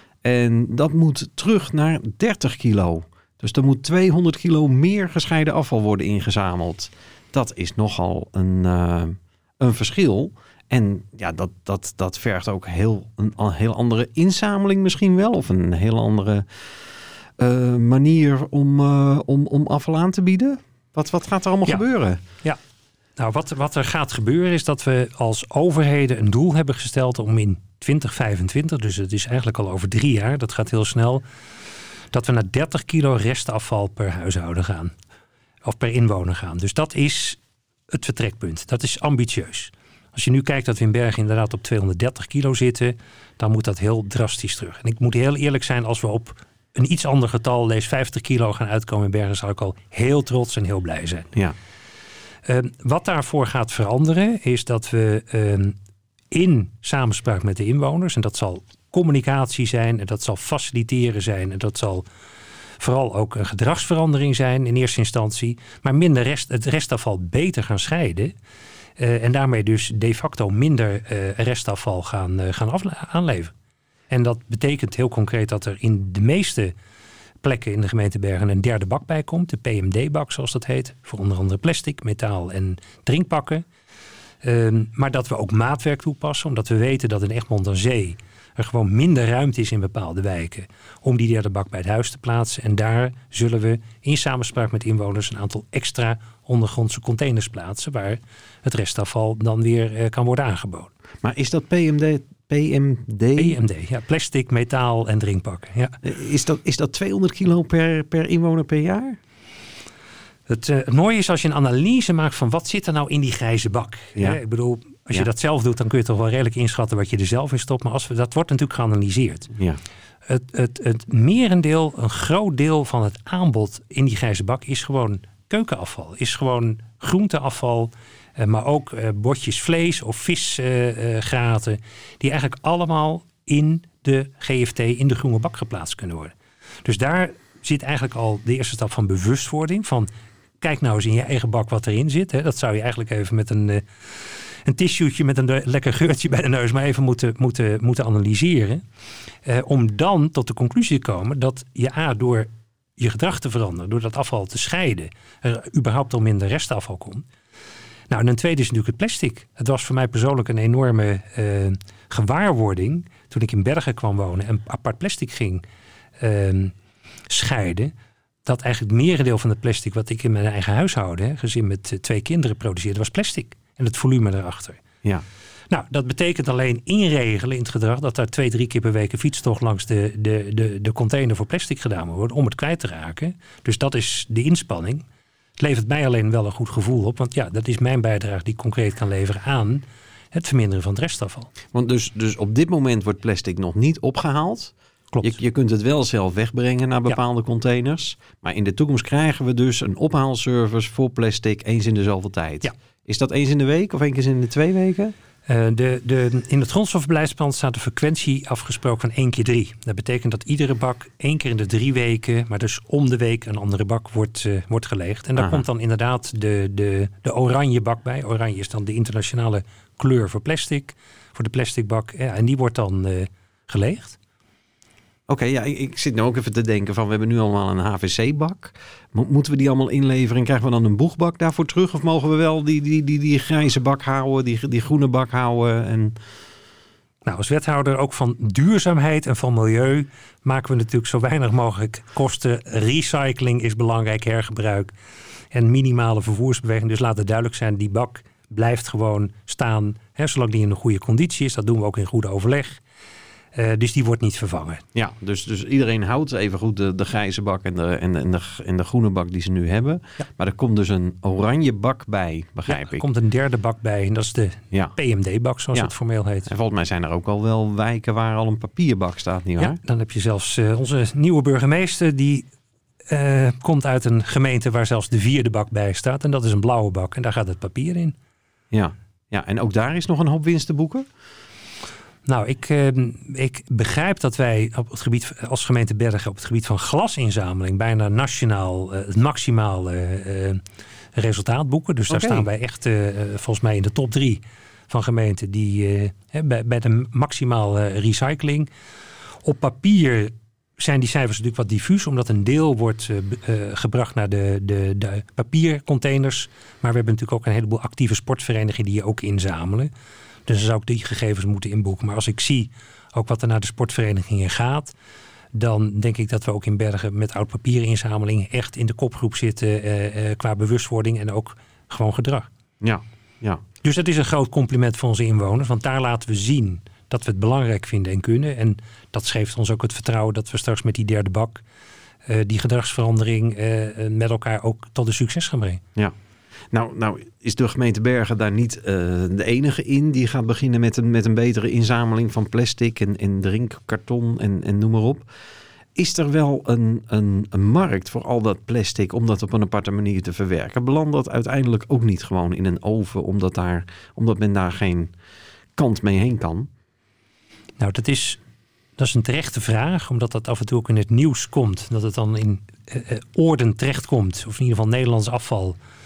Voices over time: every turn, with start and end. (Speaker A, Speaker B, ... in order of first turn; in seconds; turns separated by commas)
Speaker A: 0.2-16.4, Speaker A: 17.4-22.2, Speaker B: 23.2-31.2, Speaker B: 32.1-34.9, Speaker B: 35.6-51.3, Speaker B: 52.5-55.8, Speaker B: 56.3-62.1, Speaker B: 62.8-68.3, Speaker B: 69.0-73.5, Speaker B: 74.1-76.7, Speaker B: 77.4-83.7, Speaker B: 84.4-100.9, Speaker A: 101.2-103.6, Speaker B: 103.4-106.0, Speaker A: 106.0-109.2, Speaker B: 110.5-119.5, Speaker B: 120.3-140.1, Speaker B: 140.6-143.8, Speaker B: 144.5-148.8, Speaker B: 149.4-157.3, Speaker B: 158.1-165.6, Speaker B: 166.2-166.7, Speaker B: 167.3-167.9, Speaker B: 168.5-174.8, Speaker B: 175.7-185.1, Speaker B: 185.6-191.5, Speaker A: 191.7-205.1, Speaker B: 195.1-195.4, Speaker B: 205.5-224.2, Speaker A: 215.4-215.6, Speaker A: 225.3-236.2, Speaker B: 237.3-244.9, Speaker B: 245.5-252.8, Speaker B: 253.6-254.8, Speaker A: 254.9-263.1, Speaker B: 262.7-266.5, Speaker A: 266.5-269.8, Speaker B: 269.6-272.5, Speaker B: 273.1-278.1, Speaker A: 278.7-281.1, Speaker B: 282.3-290.6, Speaker B: 291.1-298.7, Speaker A: 292.1-292.5, Speaker B: 299.4-309.9, Speaker B: 310.5-314.9, Speaker B: 315.5-322.5, Speaker A: 322.8-323.6, Speaker B: 323.8-331.6, Speaker B: 332.3-335.8, Speaker A: 336.7-345.2, Speaker A: 346.0-355.1, Speaker A: 355.8-356.7, Speaker B: 357.8-358.4, Speaker B: 359.0-365.8